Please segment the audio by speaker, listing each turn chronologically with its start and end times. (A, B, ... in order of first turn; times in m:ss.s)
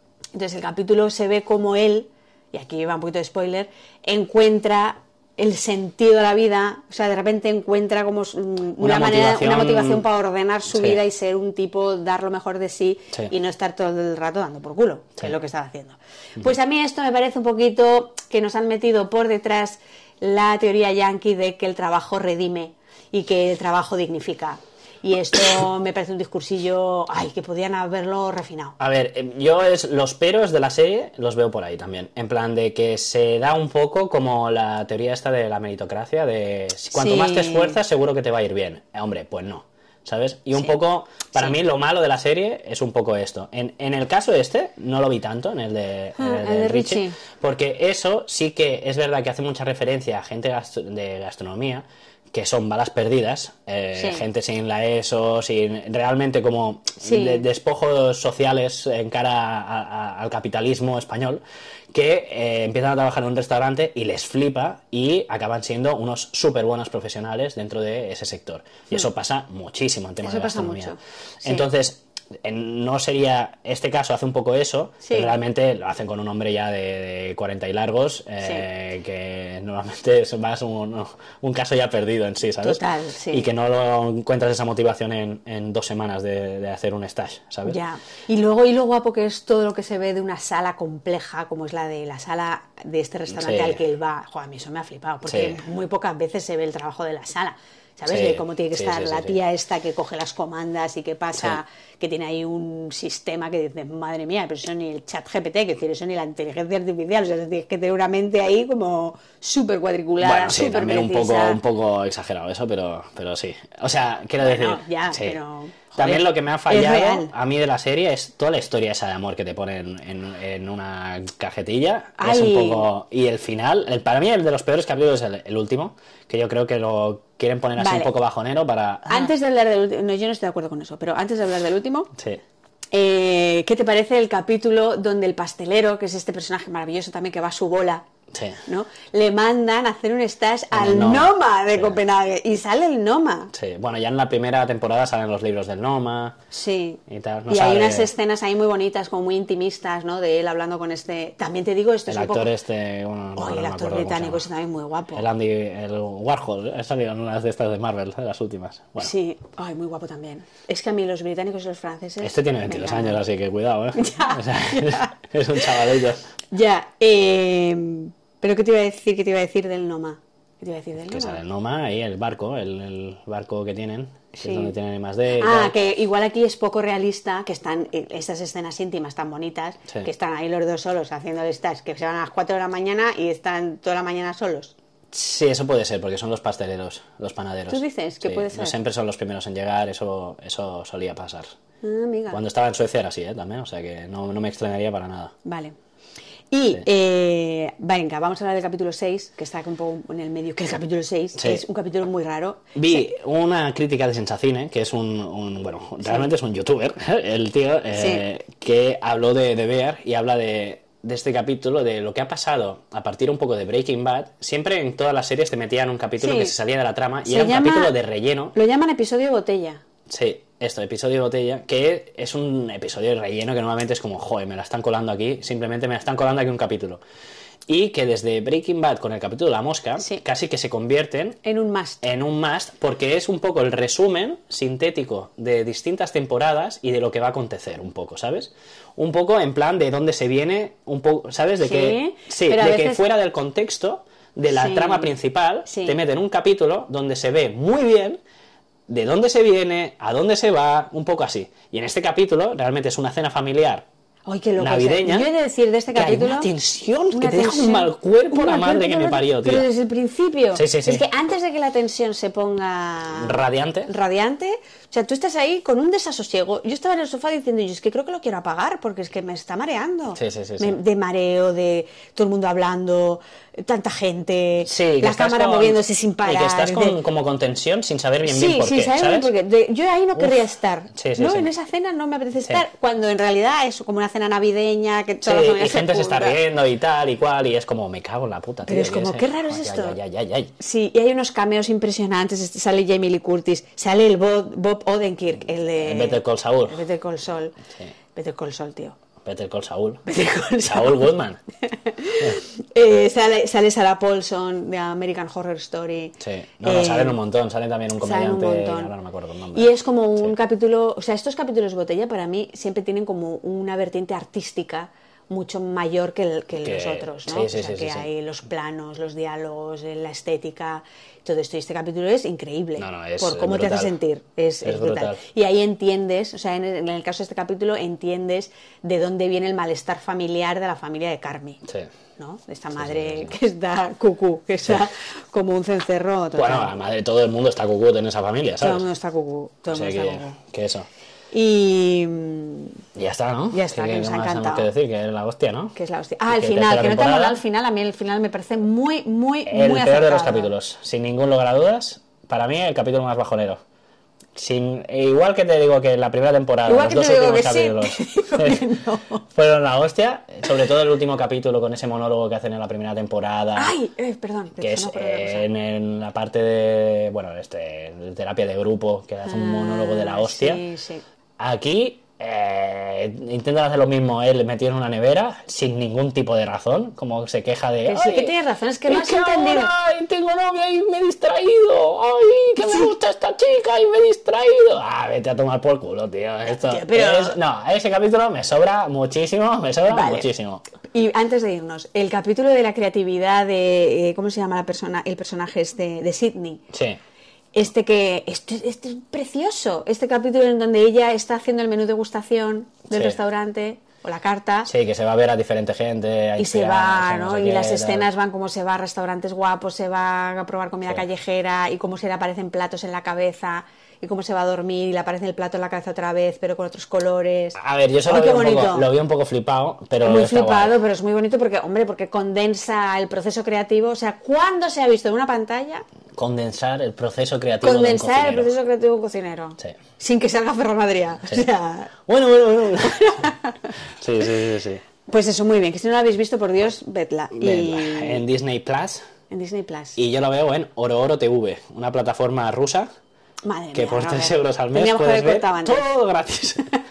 0:00.3-0:28.8 A
0:08.8-0:10.0 B
0:10.7-0:11.0 B
0:28.8-1:27.8 B
0:36.9-0:37.8 A
0:46.2-0:47.2 A
0:53.9-0:54.2 A
0:57.0-0:57.4 A
1:10.2-1:11.7 A
1:15.0-1:15.4 A
1:22.6-1:23.5 A
1:27.6-1:51.6 A
1:33.3-1:33.8 B
1:35.2-1:35.6 B
1:38.0-1:39.4 B
1:50.2-1:55.4 B
1:54.4-1:57.3 A
1:56.0-2:09.3 B
2:02.2-2:02.9 A
2:07.8-2:08.1 A
2:09.1-2:12.1 A
2:12.1-2:12.4 B
2:12.9-2:18.0 A
2:18.3-2:18.6 B
2:18.6-2:23.5 A
2:20.7-2:22.0 B
2:23.5-2:26.4 B
2:26.5-2:32.5 A
2:27.1-2:28.1 B
2:32.1-2:34.5 B
2:33.4-2:35.3 A
2:35.1-2:39.1 B
2:39.0-2:43.2 A
2:42.2-2:46.2 B
2:43.9-2:45.7 A
2:46.5-2:51.4 A
2:51.1-2:55.7 B
2:54.4-2:54.7 A
2:55.4-3:04.7 A
3:05.1-3:11.5 B
3:07.7-3:08.7 A
3:11.8-3:12.4 A
3:12.3-3:15.3 B
3:15.4-3:15.8 A
3:16.5-3:23.0 A
3:21.4-3:21.6 B
3:22.7-3:38.6 B
3:26.0-3:26.3 A
3:27.9-3:28.2 A
3:36.2-3:36.5 A
3:37.2-3:38.0 A
3:38.5-3:39.8 A
3:40.1-3:47.0 B
3:47.7-3:51.4 B
3:50.0-3:50.2 A
3:51.4-3:52.0 A
3:52.0-4:08.2 B
4:01.6-4:03.0 A
4:04.5-4:05.1 A
4:05.6-4:06.0 A
4:08.9-4:13.8 B
4:14.3-4:16.5 A
4:14.6-4:15.3 B
4:15.9-4:19.7 B
4:17.1-4:37.0 A
4:20.5-4:21.0 B
4:23.1-4:23.9 B
4:30.2-4:30.8 B
4:34.6-4:39.3 B
4:38.2-4:46.4 A
4:40.2-4:40.4 B
4:40.9-4:41.5 B
4:45.2-4:50.5 B
4:48.6-4:50.0 A
4:50.6-4:57.6 A
4:55.8-4:56.8 B
4:58.1-4:59.0 A
4:59.2-5:00.0 B
5:00.0-5:01.1 A
5:00.6-5:01.4 B
5:01.6-5:07.2 A
5:06.2-5:10.3 B
5:08.0-5:08.9 A
5:09.5-5:31.6 A
5:16.6-5:18.1 B
5:22.8-5:23.9 B
5:24.6-5:25.2 B
5:32.2-5:36.7 A
5:32.8-5:33.3 B
5:36.3-5:38.8 B
5:38.6-5:40.4 A
5:39.7-5:40.9 B
5:41.3-5:42.8 A
5:43.0-5:45.7 B
5:43.5-5:44.7 A
5:45.7-5:50.5 A
5:46.3-5:47.4 B
5:49.4-5:53.6 B
5:54.3-5:58.7 B
5:56.6-5:59.2 A
5:59.3-6:03.8 B
6:03.5-6:05.5 A
6:04.6-6:10.6 B
6:09.2-6:11.0 A
6:11.4-6:18.3 B
6:17.8-6:19.7 A
6:18.9-6:30.6 B
6:26.5-6:27.4 A
6:29.9-6:30.3 A
6:30.8-6:36.6 A
6:36.7-6:37.0 B
6:37.5-6:44.7 A
6:42.9-6:43.2 B
6:44.6-6:48.1 B
6:46.4-6:58.9 A
6:57.6-7:00.8 B
7:00.0-7:05.8 A
7:06.1-7:08.5 B
7:07.6-7:12.0 A
7:12.1-7:13.2 B
7:12.8-7:13.7 A
7:14.0-7:14.8 B
7:15.1-7:18.2 A
7:17.3-7:19.0 B
7:19.3-7:20.0 A
7:20.0-7:22.9 B
7:23.4-7:25.9 A
7:23.7-7:26.7 B